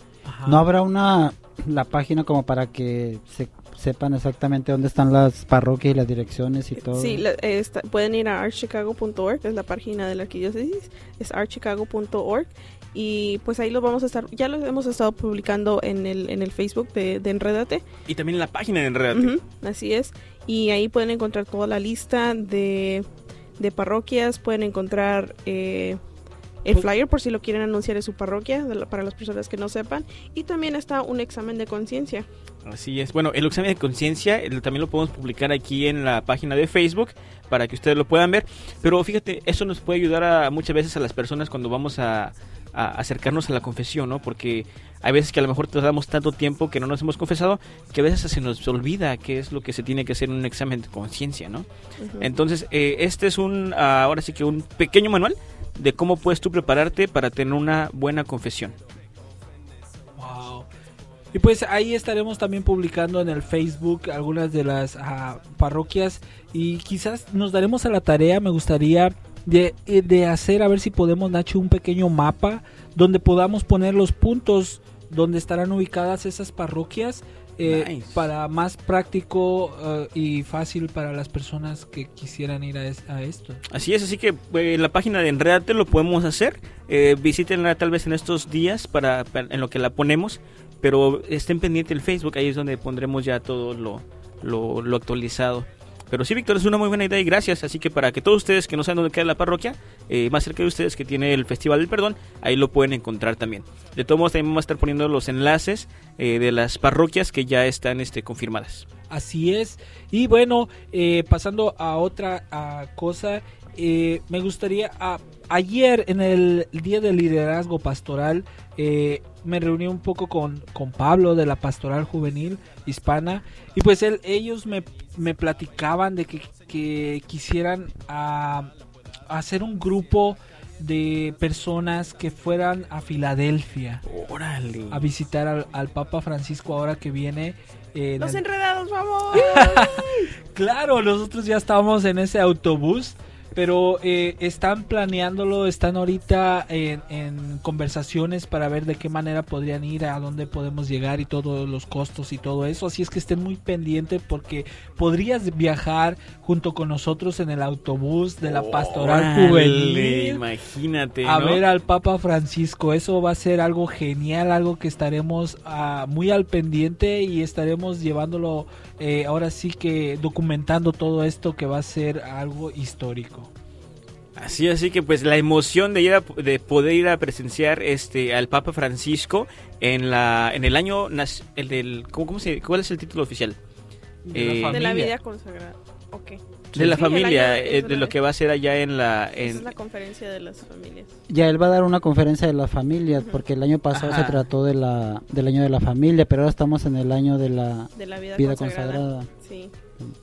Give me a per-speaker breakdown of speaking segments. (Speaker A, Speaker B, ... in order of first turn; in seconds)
Speaker A: 0.2-0.6, 60.2-60.7, 61.3-83.6, 109.1-128.7, 129.3-134.0, 134.9-138.4, 139.3-160.4, 161.2-173.5, 184.2-185.1
Speaker B: 0.5-7.2, 191.3-199.3
Speaker C: 6.9-17.8, 19.1-23.1, 23.6-26.0, 26.6-32.2, 52.0-52.3, 138.2-140.2, 184.7-188.1, 189.4-191.1, 197.9-199.7
Speaker D: 18.1-19.4, 32.6-51.7, 52.2-58.8, 77.6-78.3, 83.7-108.8, 134.1-135.1, 158.4-161.6, 174.4-183.6, 184.3-184.8, 186.7-189.7, 193.9-194.4